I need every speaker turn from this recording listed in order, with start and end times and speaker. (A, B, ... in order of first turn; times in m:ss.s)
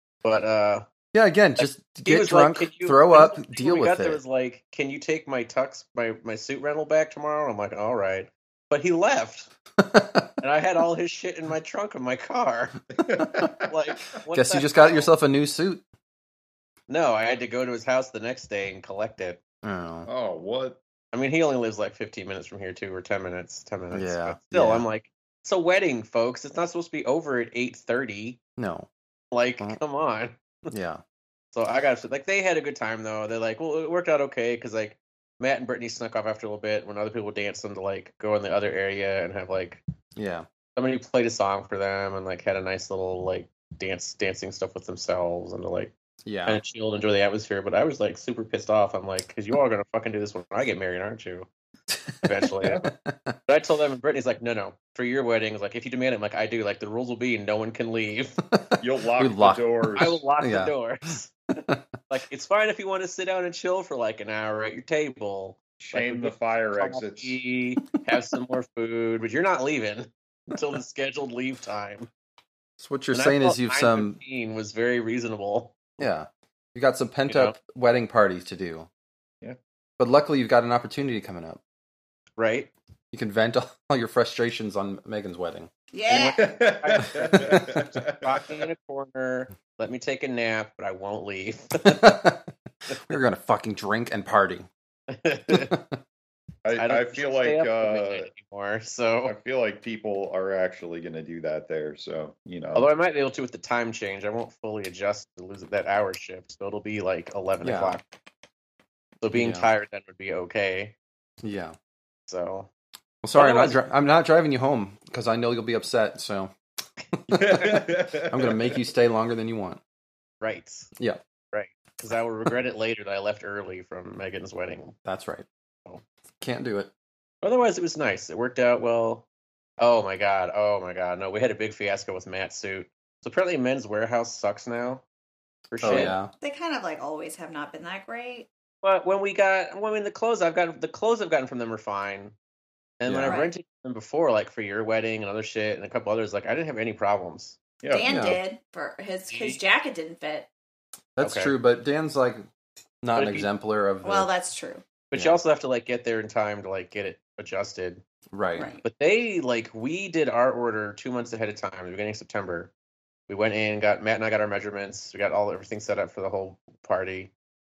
0:00.2-0:00.8 A
0:01.1-0:04.2 B
0:01.6-0:09.5 A
0:09.8-0:10.3 B
0:10.4-0:12.8 A
0:13.0-0:13.7 C
0:13.2-0:13.5 B
0:13.7-0:15.1 A
0:14.3-0:15.8 B
0:16.9-0:19.4 A
0:19.6-0:20.1 B
0:20.0-0:20.8 C
0:21.1-0:28.4 A
0:23.9-0:24.8 B
0:28.6-0:28.9 B
0:29.3-0:30.7 A
0:30.7-0:31.0 B
0:31.5-0:39.8 A
0:40.2-0:40.4 B
0:40.8-0:45.9 A
0:46.2-0:46.6 B
0:46.4-0:51.5 A
0:51.9-0:53.3 B
0:52.2-0:52.8 A
0:53.5-0:58.4 A
0:58.5-0:59.6 B
0:58.8-1:00.2 C
1:00.0-1:12.1 A
1:00.4-1:00.7 B
1:05.8-1:07.4 C
1:12.8-1:14.2 B
1:13.1-1:16.1 A
1:16.0-1:18.9 B
1:17.3-1:17.6 A
1:20.0-1:21.6 B
1:22.4-1:22.7 A
1:23.1-1:25.7 B
1:25.9-1:26.5 D
1:26.1-1:28.6 C
1:26.1-1:32.1 A
1:27.3-1:27.7 B
1:31.8-1:32.5 B
1:33.0-1:34.7 B
1:35.1-1:35.7 A
1:35.5-1:36.0 B
1:36.6-1:38.3 C
1:36.8-1:39.4 A
1:39.2-1:42.9 C
1:42.7-1:48.0 A
1:47.6-1:48.0 B
1:49.2-1:50.9 A
1:49.3-1:49.7 B
1:51.4-1:51.8 B
1:52.3-1:52.7 A
1:53.2-1:56.5 B
1:53.3-1:53.8 A
1:57.1-1:59.8 B
1:57.3-1:58.7 C
2:00.4-2:00.9 A
2:01.0-2:01.2 B
2:01.5-2:04.9 A
2:05.0-2:05.5 B
2:06.4-2:06.9 B
2:07.4-2:09.2 A
2:09.8-2:15.0 A
2:15.7-2:16.2 A
2:15.8-2:16.3 B
2:16.4-2:18.5 D
2:18.8-2:22.3 A
2:23.0-2:27.6 A
2:23.1-2:23.4 B
2:23.2-2:23.5 D
2:27.8-2:28.3 C
2:27.9-2:30.5 D
2:28.0-2:28.4 B
2:29.3-2:29.6 A
2:31.2-2:32.4 B
2:31.2-2:31.5 A
2:33.0-2:34.3 B
2:33.1-2:33.5 A
2:34.0-2:34.8 D
2:35.1-2:38.0 A
2:38.3-2:38.7 B
2:38.5-2:38.8 D
2:38.8-2:42.7 A
2:43.3-2:47.3 A